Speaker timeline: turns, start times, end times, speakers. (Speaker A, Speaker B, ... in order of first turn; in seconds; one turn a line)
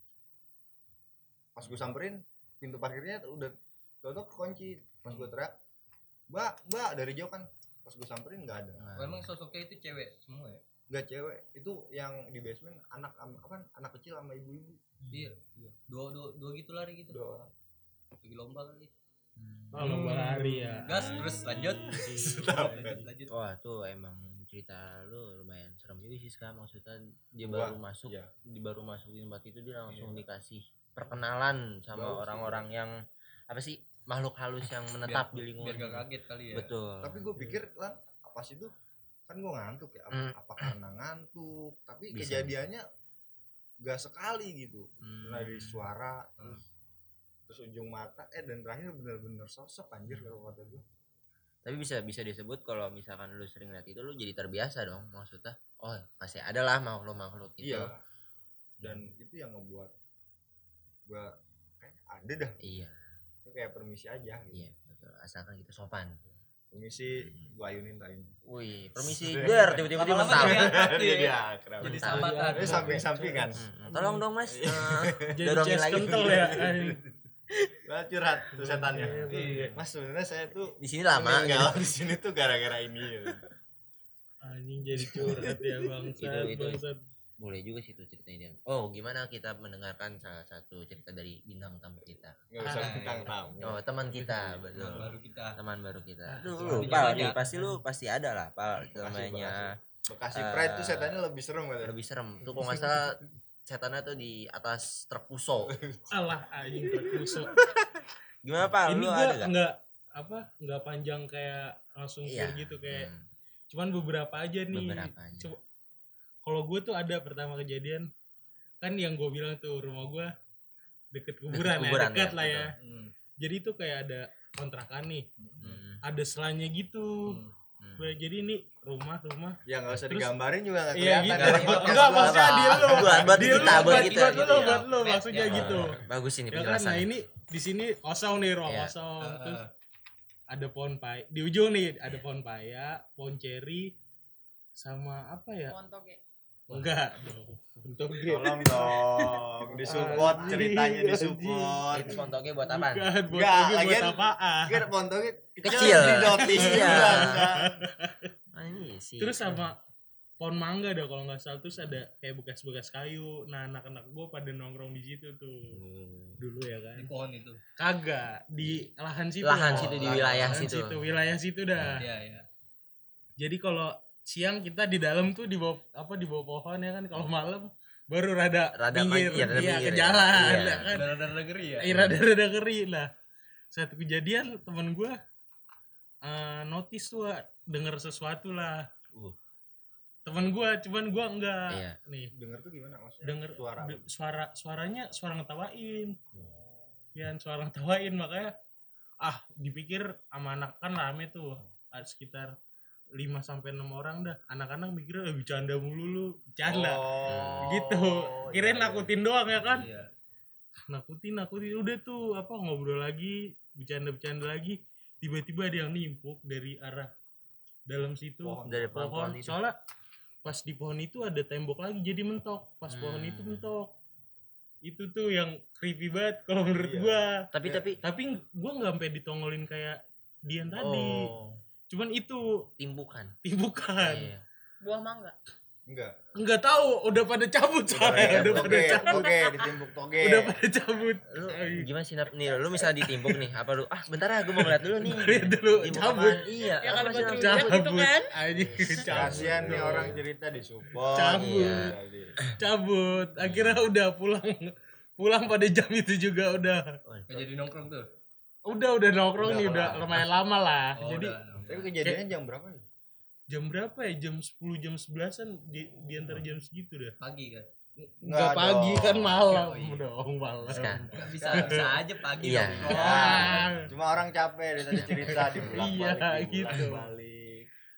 Speaker A: 1.6-5.5
Speaker B: 5.1-5.3
Speaker A: 6.3-8.9
Speaker C: 8.8-9.3
Speaker B: 8.9-10.6
Speaker A: 10.9-14.9
Speaker B: 15.1-17.2
Speaker A: 17.1-17.5
Speaker B: 18.2-18.9
Speaker D: 19.7-23.1
Speaker B: 19.8-20.1
Speaker B: 20.8-23.3
Speaker A: 21.4-23.1
Speaker C: 23.3-32.9
Speaker A: 27.4-28.3
Speaker A: 29.9-30.2
Speaker A: 31.9-32.6
Speaker C: 33.5-37.3
Speaker B: 35.0-36.7
Speaker A: 37.0-38.7
Speaker A: 39.3-42.8
Speaker C: 40.1-40.7
Speaker C: 42.1-42.5
Speaker A: 43.8-46.6
Speaker C: 45.0-45.9
Speaker A: 47.5-50.8
Speaker C: 51.6-57.9
Speaker A: 57.6-58.0
Speaker C: 58.8-59.0
Speaker A: 58.8-59.9
Speaker A: 61.1-62.6
Speaker C: 62.6-63.0
Speaker A: 63.4-64.7
Speaker C: 64.5-66.2
Speaker A: 66.7-68.3
Speaker C: 67.2-67.5
Speaker C: 68.5-70.8
Speaker A: 69.0-73.7
Speaker B: 69.9-73.1
Speaker C: 71.8-72.3
Speaker D: 72.1-74.2
Speaker C: 73.5-76.6
Speaker A: 74.5-75.2
Speaker D: 75.3-77.0
Speaker A: 76.0-77.0
Speaker A: 77.8-83.4
Speaker D: 78.5-79.8
Speaker B: 79.3-79.8
Speaker C: 80.8-81.9
Speaker D: 84.4-87.0
Speaker A: 85.0-85.7
Speaker C: 86.2-86.8
Speaker C: 87.4-92.3
Speaker A: 92.5-93.8
Speaker B: 92.6-93.3
Speaker D: 92.6-93.0
Speaker C: 93.6-99.8
Speaker D: 94.1-95.0
Speaker B: 94.7-95.6
Speaker D: 96.3-97.8
Speaker B: 96.7-97.4
Speaker A: 98.8-101.9
Speaker C: 100.3-101.2
Speaker C: 101.8-105.8
Speaker A: 105.7-106.1
Speaker D: 106.1-107.5
Speaker A: 107.0-107.6
Speaker C: 108.4-109.5
Speaker D: 108.8-113.1
Speaker C: 112.2-113.2
Speaker D: 113.7-115.6
Speaker C: 114.7-115.5
Speaker D: 116.4-118.1
Speaker D: 118.8-120.3
Speaker D: 121.1-122.7
Speaker C: 121.5-122.7
Speaker B: 122.8-123.1
Speaker D: 123.4-125.3
Speaker C: 125.6-126.0
Speaker D: 126.0-127.4
Speaker B: 127.2-127.5
Speaker C: 127.8-128.1
Speaker D: 128.0-130.3
Speaker A: 129.7-134.1
Speaker D: 130.9-139.6
Speaker B: 131.3-132.2
Speaker C: 131.4-134.9
Speaker B: 133.3-135.9
Speaker C: 135.4-137.1
Speaker C: 138.7-138.9
Speaker B: 139.2-139.7
Speaker D: 140.5-143.9
Speaker D: 144.8-145.8
Speaker E: 145.7-146.2
Speaker D: 146.7-154.9
Speaker A: 148.2-152.2
Speaker B: 150.1-150.5
Speaker C: 151.9-153.1
Speaker A: 153.3-157.8
Speaker C: 155.6-157.5
Speaker D: 155.7-158.3
Speaker C: 158.5-159.6
Speaker D: 159.2-159.8
Speaker D: 160.4-165.8
Speaker C: 165.7-166.4
Speaker D: 166.4-167.1
Speaker B: 166.9-167.6
Speaker D: 167.8-172.1
Speaker C: 169.4-171.0
Speaker B: 169.7-170.6
Speaker C: 171.8-172.0
Speaker B: 171.9-172.4
Speaker D: 173.4-181.1
Speaker C: 178.7-181.0
Speaker B: 180.9-181.9
Speaker D: 181.8-183.1
Speaker C: 181.8-182.2
Speaker D: 183.7-185.2
Speaker D: 186.2-188.9
Speaker D: 190.2-192.3
Speaker C: 191.7-192.0
Speaker A: 192.3-194.1
Speaker D: 193.2-196.2
Speaker A: 196.3-197.0
Speaker D: 197.1-198.5
Speaker D: 199.2-202.5
Speaker D: 203.2-207.0
Speaker A: 206.7-209.1
Speaker C: 207.2-207.8
Speaker D: 207.6-209.9
Speaker B: 209.7-210.1
Speaker D: 210.9-217.1
Speaker D: 217.9-219.8
Speaker A: 218.4-218.9
Speaker C: 218.6-219.6
Speaker D: 220.4-223.9
Speaker C: 222.9-223.7
Speaker D: 224.8-227.5
Speaker A: 226.7-227.9
Speaker C: 227.5-228.0
Speaker D: 228.0-231.3
Speaker C: 230.7-231.6
Speaker D: 231.9-232.7
Speaker C: 232.8-233.3
Speaker D: 233.4-234.3
Speaker C: 234.0-234.4
Speaker E: 234.8-235.3
Speaker A: 235.9-236.2
Speaker D: 236.3-239.4
Speaker A: 237.9-240.6
Speaker C: 238.0-239.0
Speaker E: 239.2-239.7
Speaker D: 240.2-241.9
Speaker C: 241.3-247.8
Speaker D: 242.8-243.4
Speaker D: 244.6-246.5
Speaker E: 246.8-248.3
Speaker D: 247.2-250.2
Speaker C: 248.9-250.2
Speaker A: 249.0-252.4
Speaker D: 251.1-251.9
Speaker C: 251.3-252.6
Speaker D: 252.6-257.0
Speaker C: 253.4-253.9
Speaker C: 257.1-257.5
Speaker B: 257.3-258.1
Speaker D: 258.6-261.4
Speaker A: 259.4-260.2
Speaker B: 260.9-261.9
Speaker A: 261.6-262.9
Speaker D: 263.5-267.1
Speaker B: 267.2-267.7
Speaker D: 268.2-271.9
Speaker A: 268.2-269.5
Speaker B: 269.5-270.0
Speaker C: 270.7-271.1
Speaker A: 270.7-271.8
Speaker B: 271.1-273.7
Speaker C: 272.4-273.1
Speaker A: 272.6-277.7
Speaker D: 272.9-273.9
Speaker C: 274.9-275.6
Speaker D: 274.9-277.1